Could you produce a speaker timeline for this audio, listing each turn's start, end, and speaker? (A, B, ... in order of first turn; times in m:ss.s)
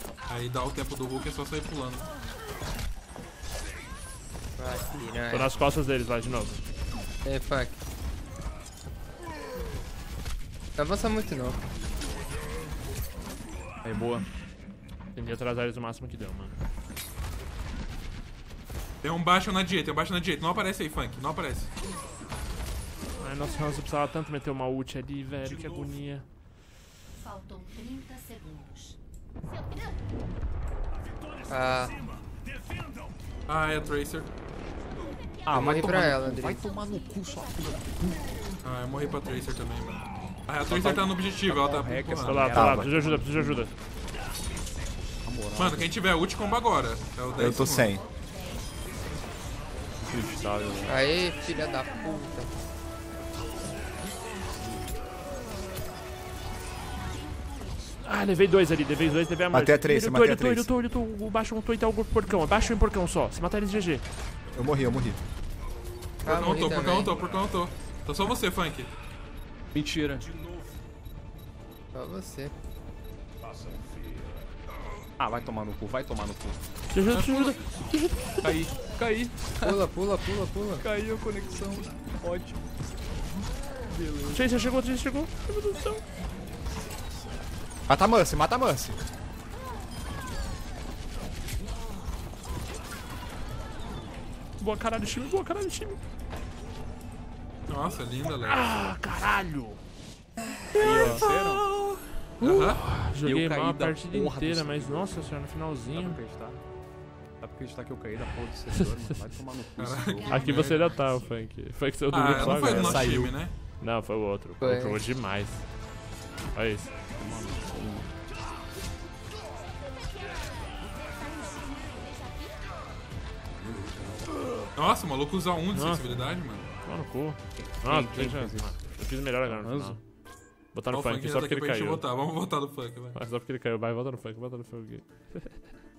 0:00.3-0:02.1 A
0:04.6-0:05.5 B
0:05.3-0:06.6 C
0:07.2-0:07.7 B
0:10.8-0:11.6 B
0:13.8-0:14.2 D
0:15.1-0:16.5 C
0:19.0-0:21.7 A
0:23.2-0:26.2 C
0:27.2-0:29.0 E
0:31.5-0:32.0 B
0:33.5-0:34.3 A
0:35.4-0:38.2 D
0:35.5-0:36.7 B
0:36.7-0:37.2 E
0:38.6-0:42.5 A
0:40.7-0:43.7 D
0:42.2-0:43.7 C
0:42.5-0:42.9 F
0:45.2-0:46.0 D
0:45.5-0:48.0 A
0:47.3-0:48.0 F
0:47.9-0:48.6 E
0:50.0-0:51.0 D
0:50.8-0:52.5 B
0:51.5-0:51.9 E
0:57.0-0:58.0 E
0:58.0-1:04.0 C
0:59.5-1:00.7 F
1:04.5-1:05.2 F
1:06.2-1:07.1 B
1:06.2-1:08.9 A
1:09.7-1:10.3 D
1:11.9-1:12.5 B
1:15.2-1:16.6 D
1:16.9-1:18.5 C
1:17.1-1:17.6 A
1:18.4-1:19.8 D
1:19.6-1:20.8 B
1:20.8-1:22.7 D
1:23.8-1:24.4 D
1:24.3-1:26.0 C
1:27.9-1:29.0 F
1:34.6-1:36.0 C
1:37.7-1:38.7 A
1:38.4-1:39.8 C
1:40.7-1:41.3 C
1:40.7-1:41.7 D
1:41.8-1:46.2 C
1:42.4-1:42.8 A
1:43.2-1:45.3 D
1:45.9-1:46.6 D
1:47.4-1:50.3 D
1:49.8-1:50.9 A
1:50.2-1:51.2 E
1:50.3-1:55.7 C
1:52.1-1:53.5 A
1:52.3-1:53.3 D
1:54.6-1:55.0 B
1:56.5-1:56.9 C
1:57.2-1:58.1 D
2:01.1-2:02.5 E
2:04.7-2:06.7 A
2:05.7-2:06.2 C
2:06.8-2:10.0 C
2:07.6-2:08.8 D
2:09.4-2:10.0 D
2:10.7-2:12.0 C
2:10.9-2:13.2 A
2:13.1-2:15.6 C